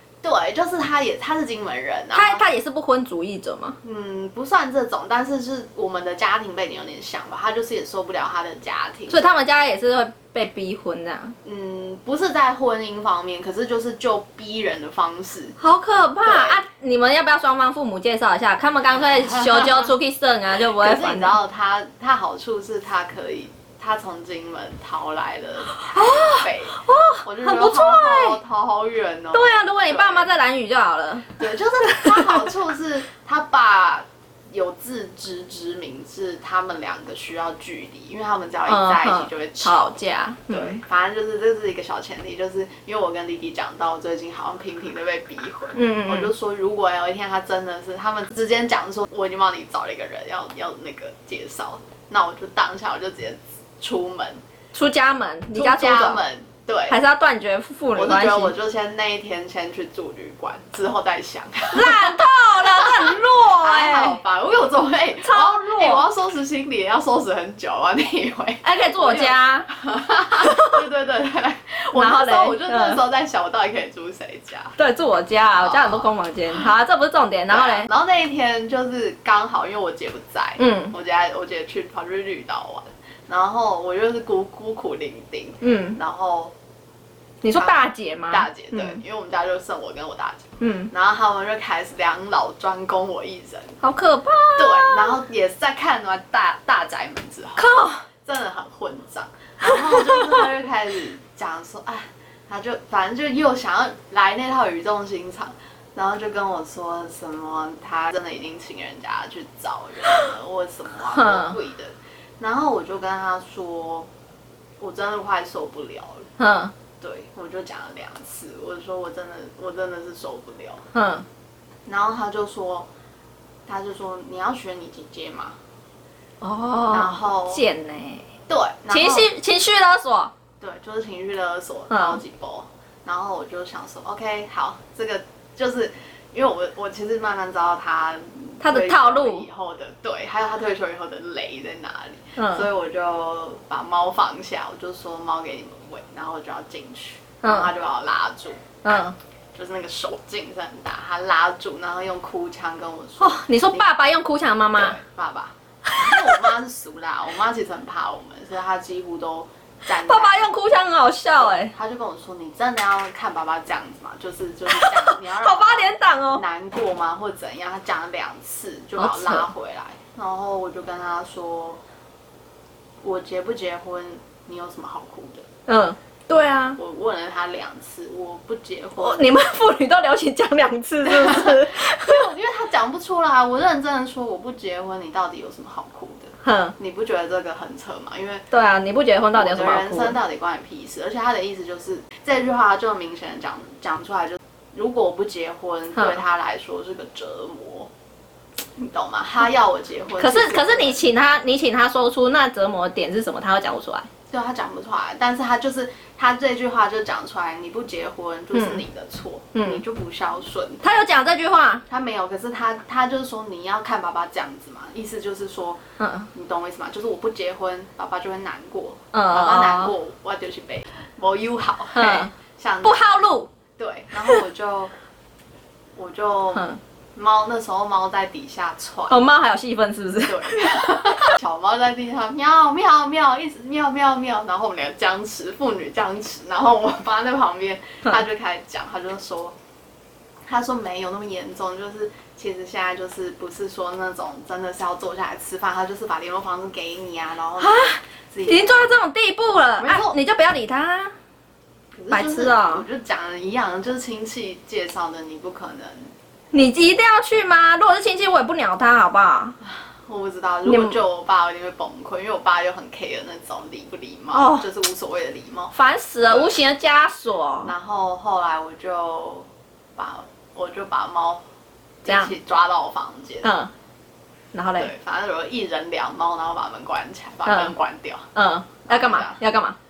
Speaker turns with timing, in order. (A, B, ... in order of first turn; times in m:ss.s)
0:00.2-0:02.4 A
0:02.1-0:03.8 B
0:03.8-0:09.3 A
0:09.1-0:11.4 B
0:11.4-0:15.6 A
0:15.6-0:21.4 B
0:16.2-0:16.6 A
0:19.4-0:19.8 A
0:20.8-0:30.3 A
0:25.8-0:28.4 B
0:29.3-0:32.5 B
0:31.4-0:40.0 A
0:38.7-0:40.8 B
0:40.5-0:54.4 A
0:45.8-0:46.3 B
0:54.7-0:56.2 B
0:55.5-0:57.0 A
0:56.9-0:58.6 B
0:58.0-1:14.8 A
1:01.7-1:04.2 B
1:05.2-1:06.0 B
1:08.6-1:09.7 B
1:10.3-1:10.8 B
1:12.0-1:13.0 B
1:14.8-1:17.9 B
1:15.6-1:16.7 A
1:17.5-1:26.5 A
1:20.6-1:21.0 B
1:25.6-1:26.0 B
1:27.4-1:29.0 B
1:27.5-1:33.8 A
1:30.6-1:30.9 B
1:33.8-1:35.2 B
1:34.6-1:54.1 A
1:37.6-1:38.0 B
1:39.7-1:40.5 B
1:51.1-1:51.6 B
1:54.8-1:56.3 A
1:56.4-1:56.7 B
1:57.0-2:00.8 A
2:00.9-2:01.3 B
2:01.9-2:02.9 A
2:03.7-2:05.6 A
2:06.4-2:08.3 B
2:06.9-2:07.7 A
2:08.5-2:09.3 A
2:08.9-2:10.3 B
2:10.6-2:28.6 A
2:11.9-2:12.2 B
2:18.6-2:19.5 B
2:22.4-2:22.7 B
2:27.4-2:27.7 B
2:28.8-2:29.2 B
2:29.6-2:33.9 A
2:33.2-2:35.0 B
2:34.8-2:40.5 A
2:35.9-2:36.4 B
2:40.1-2:41.7 B
2:41.4-2:51.8 A
2:44.7-2:46.4 B
2:49.0-2:49.5 B
2:53.0-2:55.5 A
2:55.7-2:56.8 B
2:56.8-2:59.3 A
2:59.0-3:02.3 B
3:01.0-3:08.5 A
3:06.4-3:06.8 B
3:08.5-3:10.2 B
3:09.4-3:17.9 A
3:18.8-3:21.0 A
3:20.2-3:24.1 B
3:24.3-3:30.9 A
3:28.5-3:28.8 B
3:29.6-3:29.8 B
3:30.8-3:31.8 B
3:31.9-3:35.8 A
3:36.0-3:36.3 B
3:36.3-3:43.0 A
3:39.1-3:39.9 B
3:42.0-3:43.5 B
3:43.8-3:44.9 A
3:46.0-3:49.2 A
3:49.1-3:51.4 B
3:50.2-3:59.6 A
4:00.5-4:08.9 A
4:07.6-4:11.1 B
4:09.8-4:10.2 A
4:12.0-4:16.1 A
4:12.1-4:12.8 B
4:16.5-4:19.6 B
4:19.6-4:25.8 A
4:20.7-4:21.0 B
4:24.3-4:24.7 B
4:25.7-4:27.7 B
4:26.3-4:26.6 A
4:27.6-4:29.5 A
4:30.0-4:31.4 A
4:32.0-4:33.5 A
4:32.1-4:32.3 B
4:33.4-4:33.7 B
4:34.5-4:34.9 B
4:34.8-4:38.3 A
4:37.4-4:37.8 B
4:38.4-4:39.8 B
4:38.8-4:39.4 A